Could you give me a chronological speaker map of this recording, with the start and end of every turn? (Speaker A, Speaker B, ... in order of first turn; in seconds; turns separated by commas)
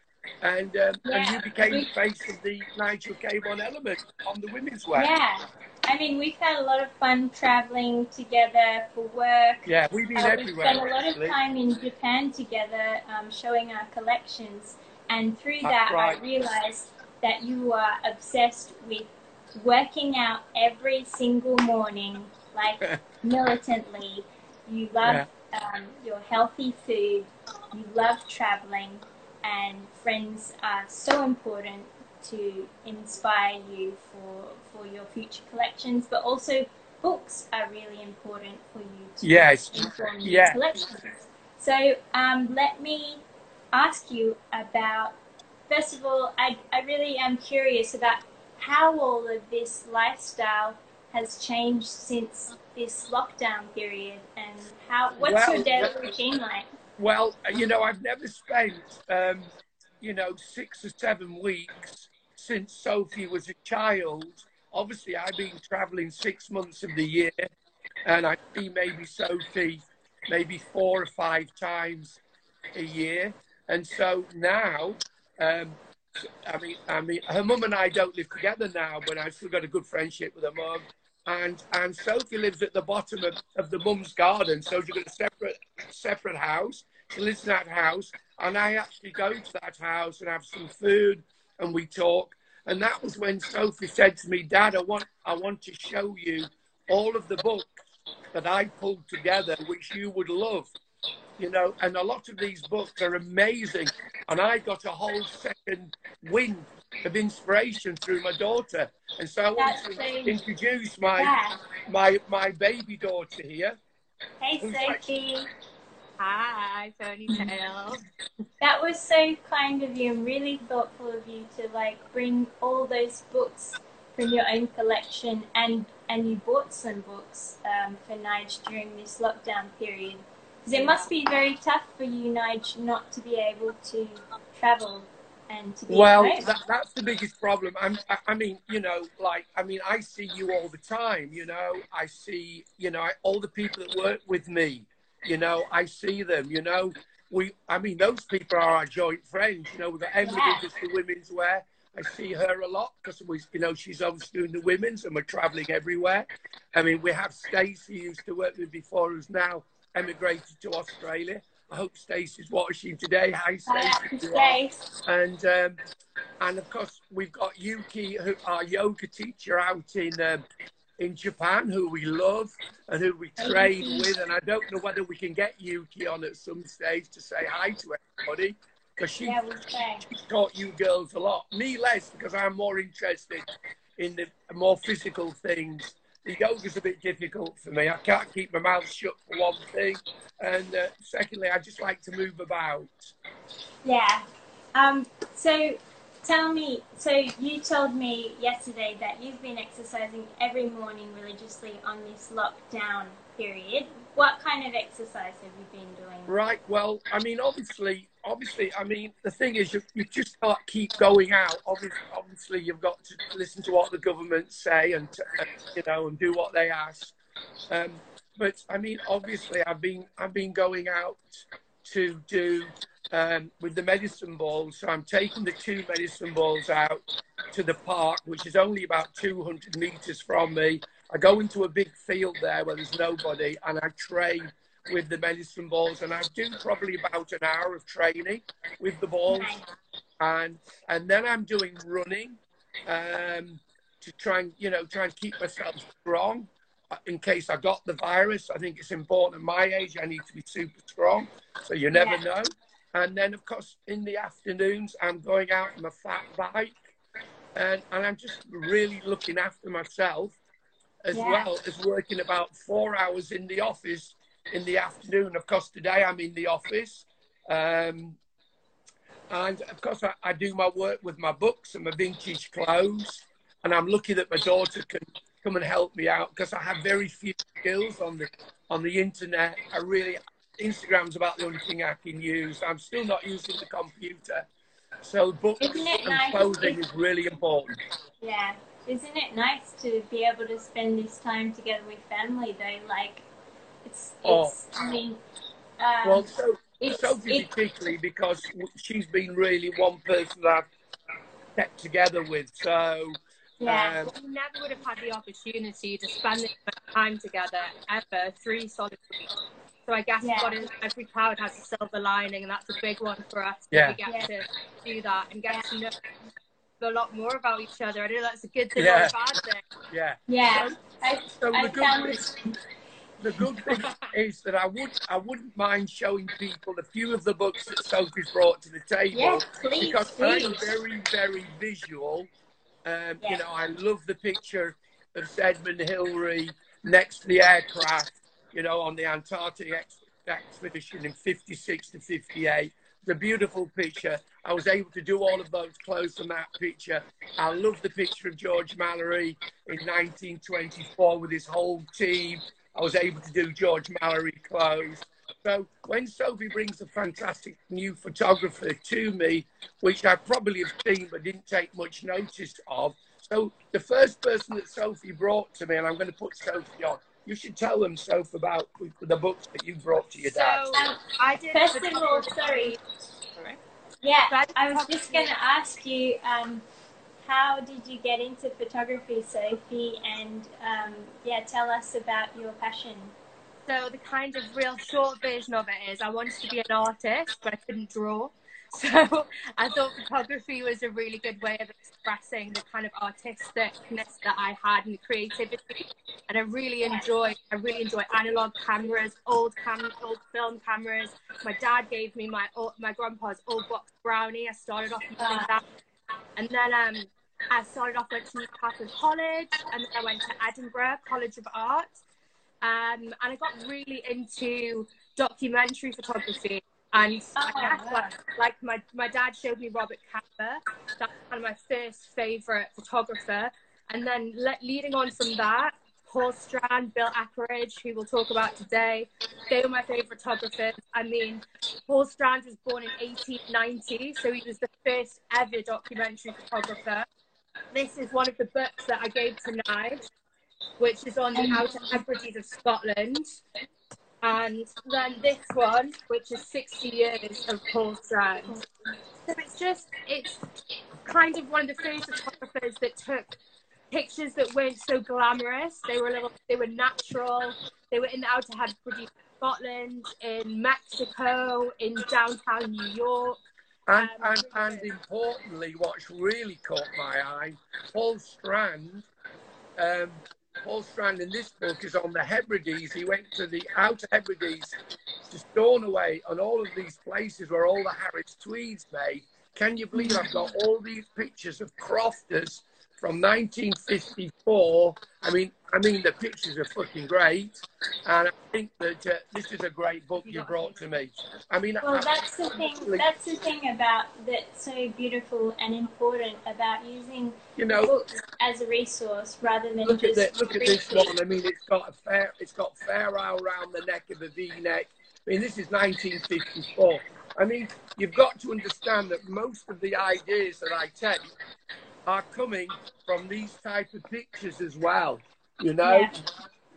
Speaker A: 0.4-5.1, Speaker B: 1.0-1.9, Speaker B: 4.9-45.2, Speaker A: 9.7-11.4, Speaker A: 15.6-16.2, Speaker A: 39.2-40.6, Speaker B: 45.7-56.6, Speaker A: 55.2-56.0, Speaker A: 57.0-67.4, Speaker A: 68.0-72.2, Speaker A: 72.8-97.8, Speaker A: 98.3-100.7, Speaker A: 101.4-111.3, Speaker B: 109.6-110.4, Speaker B: 111.2-111.6, Speaker A: 111.9-113.8, Speaker B: 114.4-115.5, Speaker A: 114.6-115.1, Speaker C: 116.2-118.0, Speaker B: 118.6-136.4, Speaker A: 135.9-165.8, Speaker B: 150.2-150.6, Speaker B: 163.7-164.8, Speaker A: 166.4-170.4, Speaker A: 171.0-183.5, Speaker B: 173.4-174.1, Speaker B: 179.2-180.1, Speaker A: 184.0-193.1, Speaker B: 193.8-194.2, Speaker B: 194.8-206.3, Speaker A: 206.3-217.1, Speaker A: 217.7-239.6, Speaker B: 239.3-239.7, Speaker A: 240.2-256.8, Speaker B: 251.9-252.2, Speaker A: 257.5-260.4, Speaker A: 261.1-268.2, Speaker B: 261.1-261.5, Speaker A: 269.3-284.5, Speaker A: 285.0-287.8, Speaker B: 285.6-286.8, Speaker B: 288.2-293.2, Speaker B: 293.9-295.2, Speaker A: 294.2-294.6, Speaker B: 295.8-296.3, Speaker A: 296.0-300.7, Speaker B: 296.8-297.5, Speaker A: 301.5-304.1, Speaker B: 303.6-304.0, Speaker C: 304.0-309.3, Speaker C: 309.9-315.9, Speaker B: 310.2-310.6, Speaker A: 313.7-314.0, Speaker B: 314.0-314.3, Speaker C: 316.8-319.6, Speaker A: 318.8-319.1, Speaker A: 319.9-322.3, Speaker B: 320.3-322.5, Speaker A: 323.2-332.3, Speaker C: 323.7-324.1, Speaker B: 329.1-330.6, Speaker A: 332.9-370.6, Speaker C: 370.2-372.8, Speaker B: 370.7-371.0, Speaker B: 371.5-372.8, Speaker B: 374.0-376.6, Speaker C: 374.3-375.3, Speaker B: 377.2-383.1, Speaker C: 383.6-405.6, Speaker B: 405.2-405.5, Speaker C: 406.4-411.9, Speaker C: 412.6-437.1, Speaker B: 417.4-418.1, Speaker C: 437.7-440.1, Speaker C: 440.8-443.4, Speaker B: 441.4-441.6, Speaker C: 444.2-448.6, Speaker C: 449.3-450.4, Speaker C: 451.0-453.4, Speaker C: 453.9-463.4, Speaker A: 463.9-469.1, Speaker C: 463.9-464.9, Speaker A: 469.8-474.8, Speaker A: 475.3-493.1, Speaker B: 479.9-480.5, Speaker B: 491.8-501.1, Speaker A: 497.6-497.9, Speaker A: 499.9-511.3, Speaker A: 512.1-516.1, Speaker B: 515.8-516.1